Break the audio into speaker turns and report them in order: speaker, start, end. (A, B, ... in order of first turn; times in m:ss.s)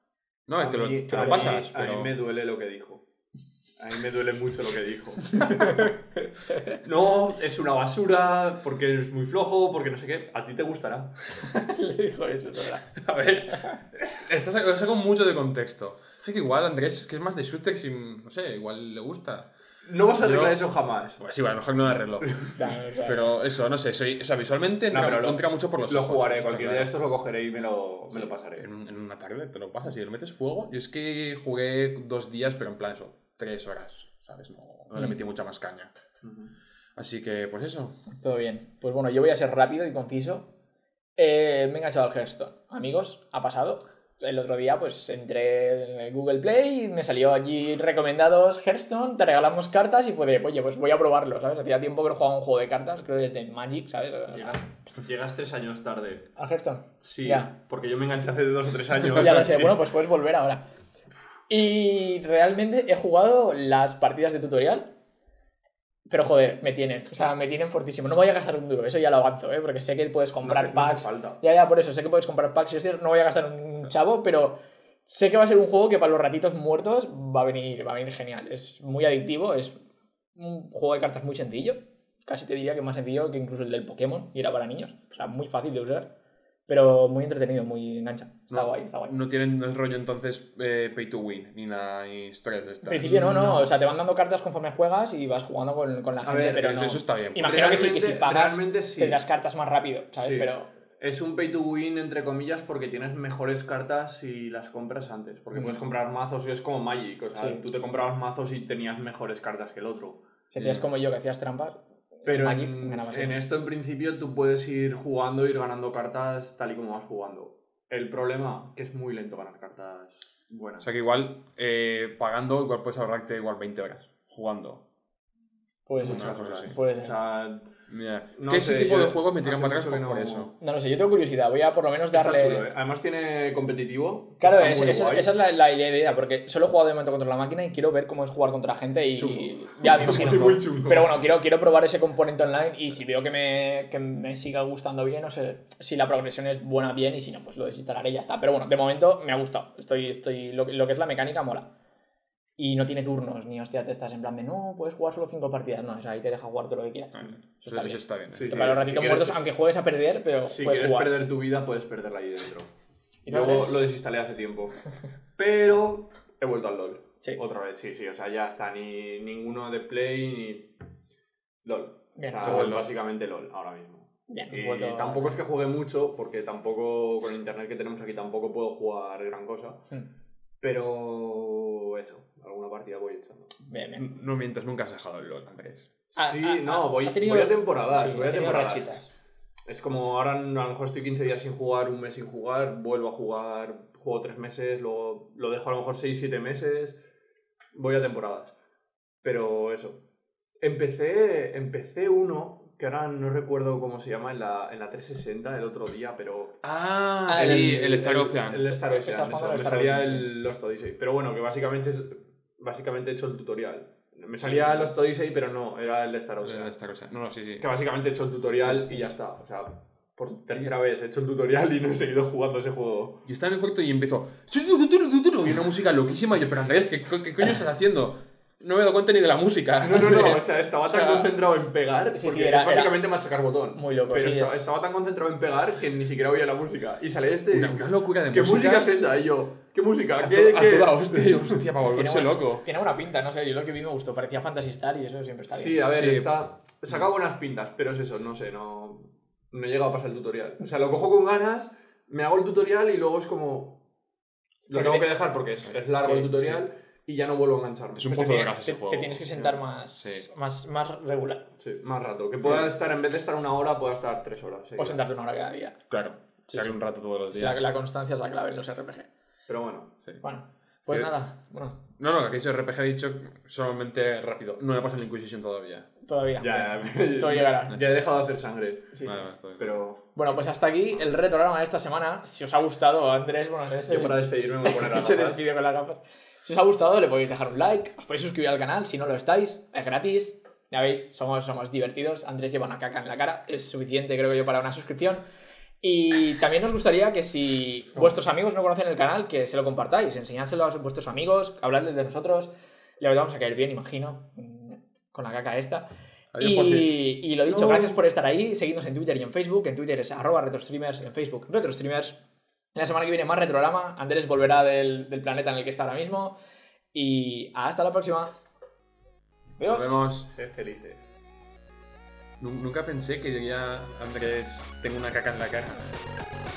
0:00.5-0:02.1 A
0:00.6-0:03.0 B
0:03.8-0:05.7 B
0:05.4-0:05.7 C
0:06.8-0:11.2 B
0:11.4-0:13.8 C
0:13.0-0:19.5 A
0:19.8-0:21.2 B
0:20.2-0:20.6 A
0:21.2-0:26.9 A
0:22.2-0:22.6 B
0:22.6-0:23.3 C
0:24.9-0:28.7 B
0:28.6-0:35.9 A
0:36.2-0:36.5 B
0:37.0-0:38.0 A
0:38.2-0:40.5 C
0:41.2-0:54.7 C
0:54.4-0:56.3 B
0:56.4-0:57.5 C
0:57.0-0:59.7 B
0:59.1-1:00.6 C
1:01.5-1:04.9 C
1:06.1-1:19.8 C
1:10.4-1:11.4 B
1:20.4-1:26.1 C
1:26.7-1:29.1 C
1:28.5-1:33.2 A
1:32.8-1:40.7 C
1:33.0-1:33.7 B
1:36.2-1:36.7 B
1:36.6-1:37.8 A
1:37.4-1:39.2 B
1:40.1-1:50.2 B
1:47.4-1:47.6 C
1:50.5-1:53.4 C
1:50.6-1:50.8 A
1:52.3-2:00.9 B
2:00.8-2:04.8 A
2:05.9-2:07.1 C
2:06.0-2:07.7 B
2:06.0-2:06.7 A
2:07.9-2:10.5 A
2:08.4-2:10.5 B
2:10.6-2:12.7 C
2:12.1-2:15.3 B
2:14.4-2:31.7 C
2:19.2-2:21.2 B
2:32.6-2:41.1 C
2:37.2-2:38.5 A
2:38.3-2:39.5 B
2:40.4-2:42.7 B
2:43.3-2:43.9 C
2:43.3-2:50.7 B
2:51.6-2:59.8 B
2:52.2-2:52.8 C
2:52.4-2:52.9 A
2:54.3-2:55.4 C
3:00.6-3:03.6 B
3:03.7-3:04.0 C
3:04.0-3:05.9 A
3:06.2-3:09.0 B
3:06.2-3:09.1 C
3:09.7-3:17.0 B
3:17.7-3:18.6 B
3:19.2-3:20.0 B
3:20.6-3:26.6 B
3:26.6-3:28.7 A
3:27.3-3:28.1 C
3:27.3-3:36.8 B
3:28.8-3:30.3 C
3:34.4-3:34.9 C
3:36.4-3:37.7 A
3:37.6-3:43.2 B
3:43.3-3:51.3 A
3:49.8-4:01.6 B
3:52.1-3:53.0 C
3:53.7-3:54.7 C
3:57.5-3:58.9 A
4:00.2-4:02.6 A
4:01.9-4:05.8 C
4:05.5-4:13.8 B
4:05.9-4:06.3 A
4:14.7-4:18.1 B
4:14.7-4:15.0 C
4:16.0-4:16.3 C
4:18.0-4:19.3 A
4:18.1-4:21.4 C
4:20.0-4:20.3 A
4:21.6-4:25.0 B
4:24.8-4:25.9 C
4:25.9-4:27.7 A
4:26.4-4:26.8 C
4:27.3-4:29.1 C
4:29.5-4:29.9 B
4:30.2-4:31.8 C
4:32.0-4:35.9 A
4:36.0-4:37.8 C
4:36.4-4:40.0 B
4:38.9-4:39.2 C
4:39.0-4:39.8 A
4:40.2-4:55.2 C
4:43.9-4:45.4 B
4:55.8-5:05.9 C
5:06.3-5:06.9 A
5:06.4-5:12.2 C
5:12.8-5:16.4 C
5:16.9-5:18.3 C
5:19.6-5:20.0 C
5:19.6-5:20.3 A
5:20.2-5:21.1 B
5:22.4-5:26.2 A